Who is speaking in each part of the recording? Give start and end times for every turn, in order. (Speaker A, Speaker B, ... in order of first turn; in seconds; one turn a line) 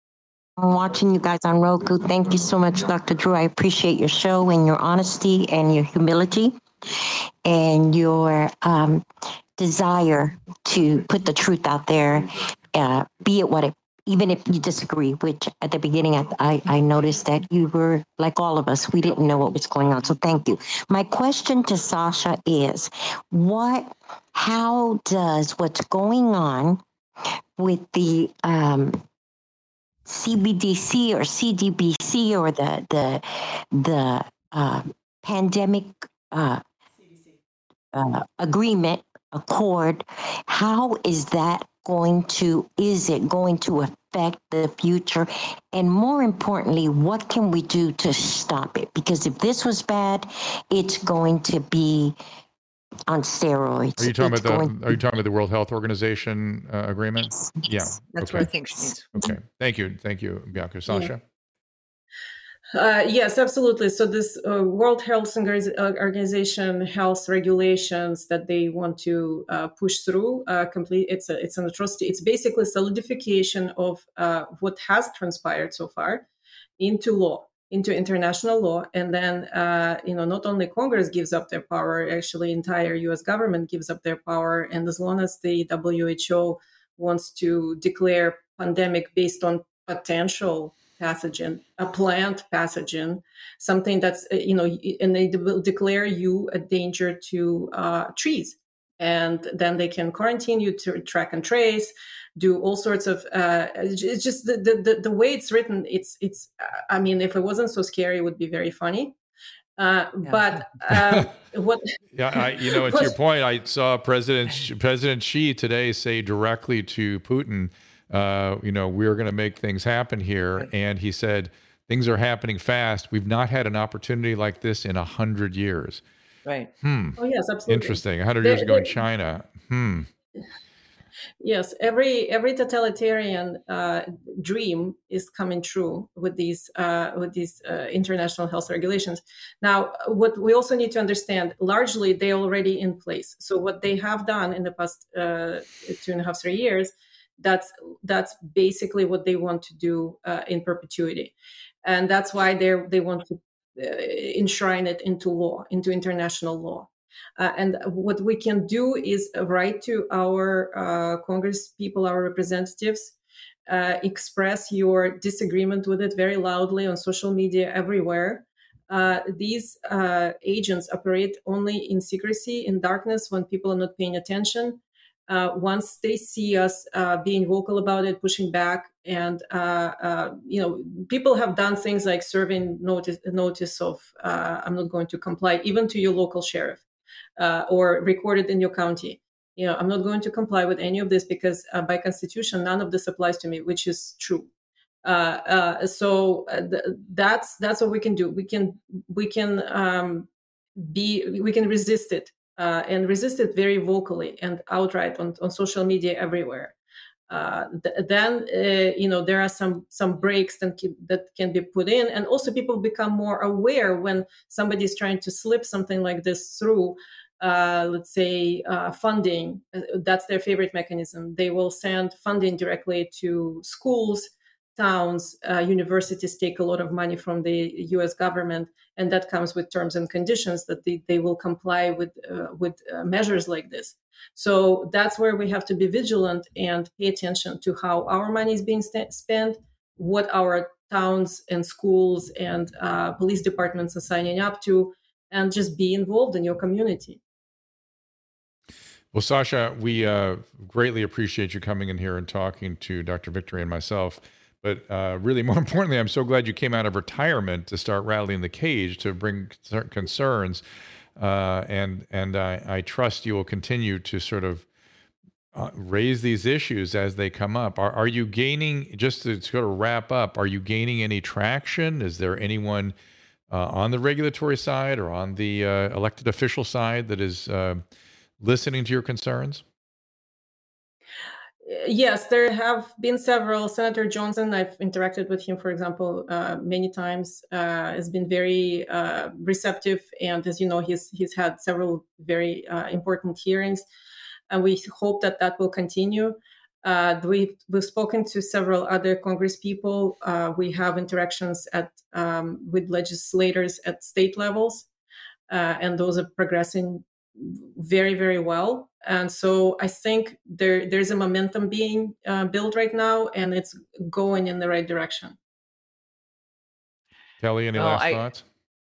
Speaker A: 0.6-9.0
Speaker A: 9.6-26.8
Speaker A: 27.6-29.0
Speaker A: 30.1-36.6
Speaker A: 37.9-52.2
Speaker A: 53.1-55.0
Speaker B: 54.0-58.5
Speaker C: 58.1-59.1
Speaker B: 59.1-61.2
Speaker D: 62.7-76.2
Speaker D: 76.8-109.2
Speaker D: 109.8-113.1
Speaker C: 110.2-110.5
Speaker B: 110.9-111.2
Speaker B: 112.1-126.0
Speaker C: 126.5-126.7
Speaker B: 126.8-130.1
Speaker D: 127.2-129.0
Speaker D: 131.4-163.2
Speaker D: 163.7-186.8
Speaker D: 187.4-194.5
Speaker D: 195.0-206.8
Speaker D: 207.3-247.2
Speaker B: 249.1-260.6
Speaker B: 261.2-264.7
Speaker B: 265.5-272.9
Speaker B: 273.5-277.8
Speaker B: 278.4-279.6
Speaker D: 281.6-293.8
Speaker D: 294.5-304.9
Speaker D: 305.5-315.4
Speaker B: 317.4-318.4
Speaker C: 317.8-318.2